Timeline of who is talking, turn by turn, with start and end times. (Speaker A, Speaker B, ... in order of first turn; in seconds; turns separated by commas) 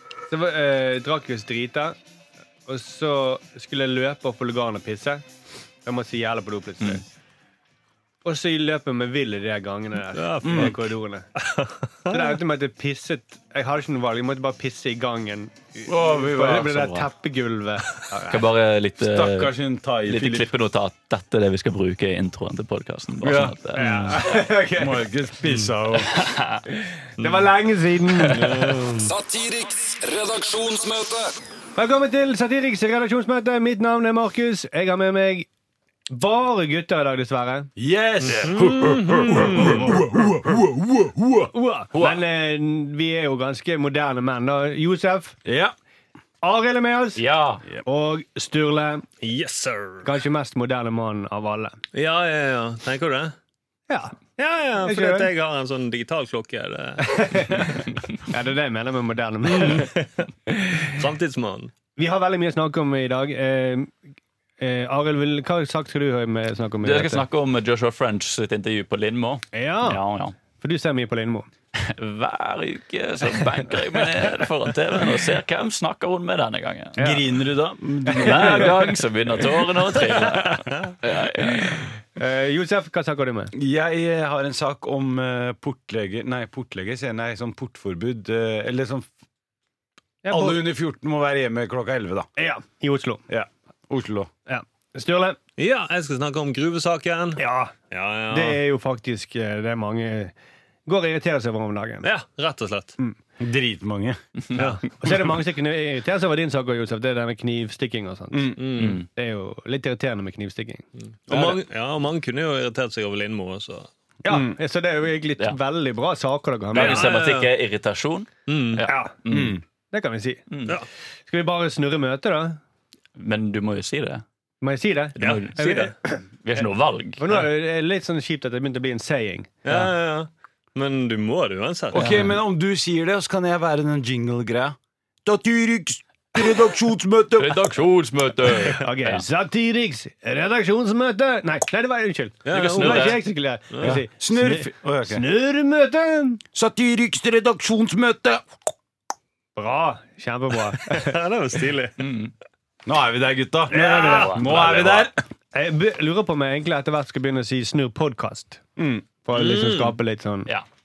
Speaker A: 0.3-1.9, Speaker A: 2.7-5.2, Speaker A: 5.8-7.0, Speaker A: 8.2-11.3, Speaker B: 10.1-10.8, Speaker C: 10.4-10.8, Speaker B: 11.3-12.4, Speaker A: 12.1-18.4, Speaker C: 15.8-17.0, Speaker D: 16.7-17.0, Speaker D: 18.3-24.2, Speaker C: 19.0-20.5, Speaker C: 23.2-26.2, Speaker A: 23.7-25.0, Speaker D: 26.0-26.6, Speaker A: 27.2-28.5, Speaker B: 27.2-27.5, Speaker B: 28.3-29.1, Speaker E: 29.0-31.3, Speaker A: 31.8-35.5, Speaker A: 36.1-37.7, Speaker C: 37.8-41.5, Speaker B: 38.2-39.9, Speaker A: 39.5-40.0, Speaker A: 41.5-45.4, Speaker C: 45.4-45.7, Speaker A: 46.4-47.2, Speaker D: 47.1-47.6, Speaker A: 47.8-49.0, Speaker B: 49.2-50.1, Speaker A: 50.0-51.8, Speaker B: 51.9-53.3, Speaker A: 53.9-54.1, Speaker B: 54.4-57.9, Speaker A: 54.8-55.3, Speaker A: 57.0-59.9, Speaker B: 59.5-61.7, Speaker A: 60.5-61.0, Speaker A: 62.0-63.9, Speaker A: 64.6-67.2, Speaker D: 66.8-70.3, Speaker A: 69.5-70.0, Speaker A: 70.6-71.5, Speaker D: 71.7-77.0, Speaker A: 77.0-77.3, Speaker C: 77.0-78.9, Speaker A: 78.1-78.9, Speaker D: 78.2-81.9, Speaker A: 82.2-83.5, Speaker C: 83.5-89.1, Speaker A: 90.2-90.6, Speaker C: 90.3-92.3, Speaker A: 92.4-93.2, Speaker C: 93.3-94.3, Speaker A: 94.5-95.4, Speaker B: 95.6-98.6, Speaker A: 97.4-97.7, Speaker A: 98.3-100.3, Speaker A: 100.8-102.1, Speaker B: 102.0-103.0, Speaker C: 103.4-104.6, Speaker A: 104.5-110.8, Speaker C: 108.3-108.6, Speaker B: 108.6-109.0, Speaker D: 108.8-109.0, Speaker B: 111.3-113.9, Speaker C: 111.3-111.6, Speaker C: 114.2-114.5, Speaker A: 114.3-117.2, Speaker B: 116.7-117.5, Speaker D: 116.7-119.6, Speaker B: 118.5-118.8, Speaker A: 118.8-119.1, Speaker C: 119.3-119.6, Speaker A: 119.9-120.4, Speaker D: 120.5-120.8, Speaker A: 121.3-122.6, Speaker D: 123.2-124.2, Speaker A: 124.6-126.7, Speaker D: 125.2-125.9, Speaker B: 125.2-125.9, Speaker D: 126.4-127.4, Speaker A: 127.2-129.9, Speaker B: 129.6-132.0, Speaker C: 131.9-137.8, Speaker D: 131.9-132.3, Speaker D: 137.4-139.2, Speaker A: 138.7-146.4, Speaker B: 142.4-143.2, Speaker D: 142.5-143.2, Speaker B: 143.7-144.0, Speaker C: 143.8-145.2, Speaker C: 146.5-148.4, Speaker A: 149.6-151.1, Speaker B: 150.8-152.0, Speaker D: 152.0-152.3, Speaker C: 152.8-155.2, Speaker A: 153.7-154.3, Speaker B: 153.9-154.3, Speaker D: 154.0-155.1, Speaker A: 155.5-158.6, Speaker C: 158.8-159.1, Speaker A: 159.2-160.5, Speaker B: 159.3-160.0